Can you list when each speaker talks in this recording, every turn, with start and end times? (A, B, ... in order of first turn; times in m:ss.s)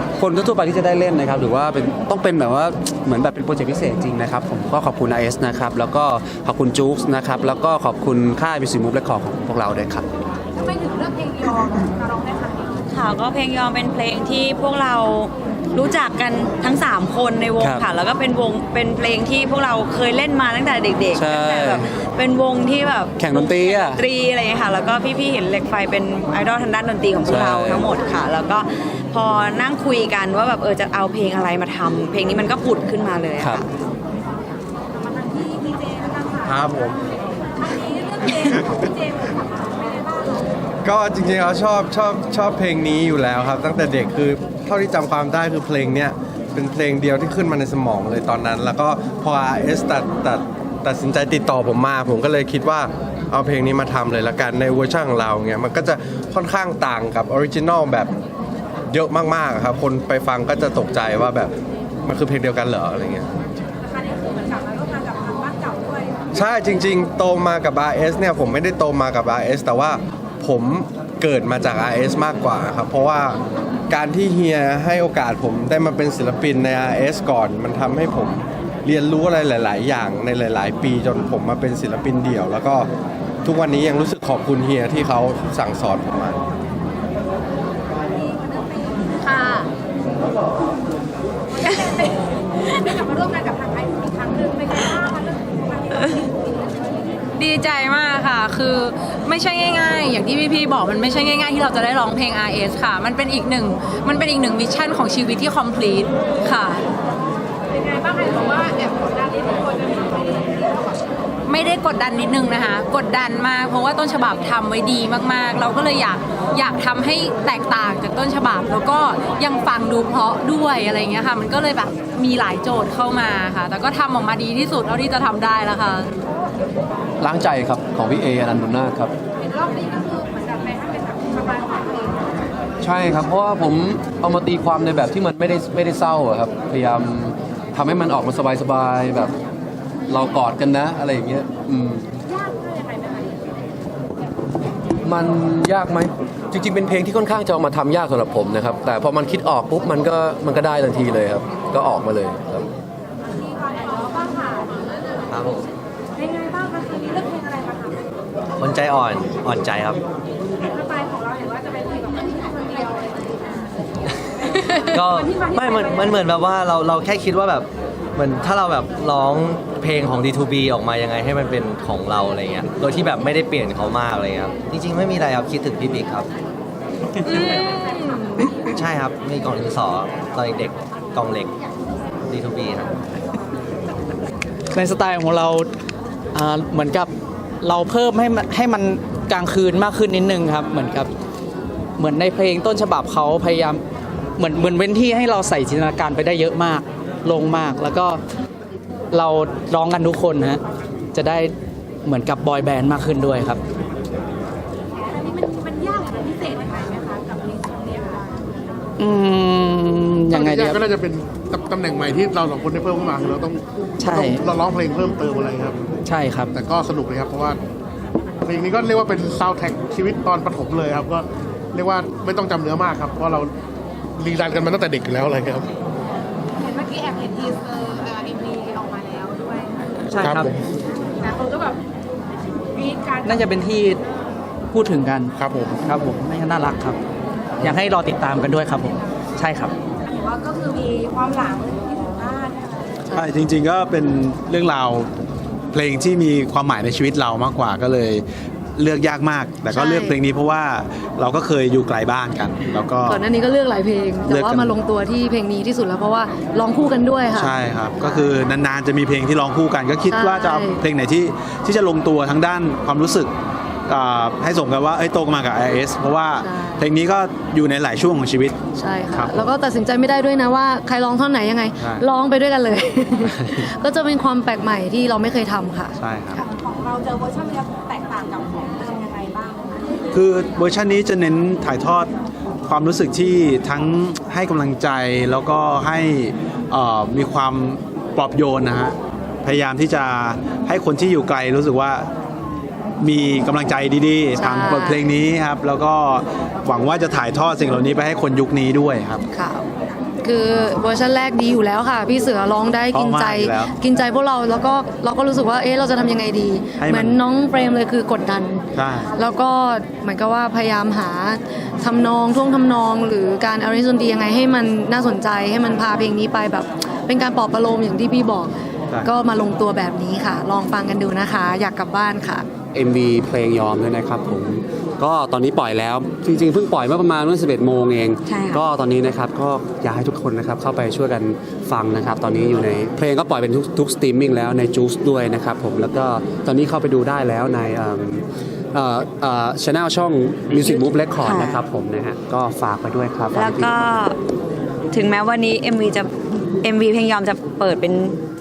0:00.2-0:10.0 A
0:10.5-0:12.8 B
0:12.9-0:33.6 C
0:17.6-0:17.9 A
0:21.1-0:21.9 A
0:23.2-0:24.0 A
0:27.2-0:27.8 A
0:33.4-0:33.6 A
0:35.0-0:36.6 B
0:36.4-0:37.0 D
0:37.6-0:40.4 B
0:40.8-0:58.1 D
0:58.9-1:01.5 D
1:02.0-1:03.3 D
1:03.8-1:06.2 B
1:06.3-1:22.9 D
1:23.4-1:26.4 D
1:28.2-1:29.1 B
1:29.2-1:29.6 E
1:31.5-1:37.2 B
1:37.4-1:46.8 E
1:47.7-1:51.0 B
1:51.4-2:06.1 E
2:07.2-2:09.1 F
2:09.4-2:12.3 B
2:12.8-2:19.3 F
2:20.1-2:22.0 F
2:22.3-2:23.4 B
2:25.0-2:32.7 F
2:33.3-2:34.7 B
2:35.3-2:35.7 G
2:36.2-2:38.0 B
2:38.6-2:40.0 G
2:40.7-2:43.7 B
2:44.9-2:56.3 G
2:45.1-2:46.0 B
2:57.2-2:58.5 E
2:58.8-3:01.5 G
3:02.2-3:02.9 G
3:04.7-3:05.6 H
3:06.3-3:07.1 H
3:07.6-3:11.1 H
3:12.0-3:13.8 H
3:14.4-3:18.2 H
3:19.1-3:20.6 H
3:21.1-3:21.5 H
3:22.0-3:23.6 H
3:25.0-3:28.4 B
3:29.0-3:30.8 H
3:30.3-3:35.8 I
3:34.0-3:34.4 H
3:36.1-3:36.5 H
3:36.5-3:37.6 I
3:38.4-3:43.5 I
3:44.2-3:45.6 I
3:46.6-3:49.8 B
3:50.1-3:50.4 H
3:50.2-3:50.5 I
3:51.2-3:51.8 B
3:52.7-3:53.5 B
3:53.2-3:54.0 H
3:54.7-3:57.0 H
3:55.4-3:55.7 I
3:57.6-3:59.7 H
4:00.0-4:02.8 B
4:03.1-4:03.3 J
4:03.1-4:05.1 K
4:05.7-4:08.2 K
4:08.8-4:13.2 K
4:09.7-4:10.2 J
4:13.0-4:17.5 J
4:14.3-4:14.7 K
4:17.3-4:23.3 K
4:20.1-4:20.8 J
4:23.9-4:28.6 K
4:26.4-4:26.8 J
4:28.7-4:36.0 J
4:29.1-4:29.5 K
4:31.8-4:32.0 K
4:36.0-4:36.4 K
4:36.3-4:39.7 B
4:40.1-4:42.1 K
4:42.6-4:52.1 K
4:53.0-4:59.2 K
4:54.3-4:55.1 J
4:59.3-4:59.6 J
5:00.2-5:22.5 J
5:02.9-5:03.7 K
5:06.8-5:07.2 K
5:08.8-5:09.1 K
5:22.7-5:43.8 A
5:28.3-5:28.6 C
5:40.6-5:41.6 C
5:43.3-5:44.1 C
5:44.9-5:46.1 C
5:46.6-5:48.1 C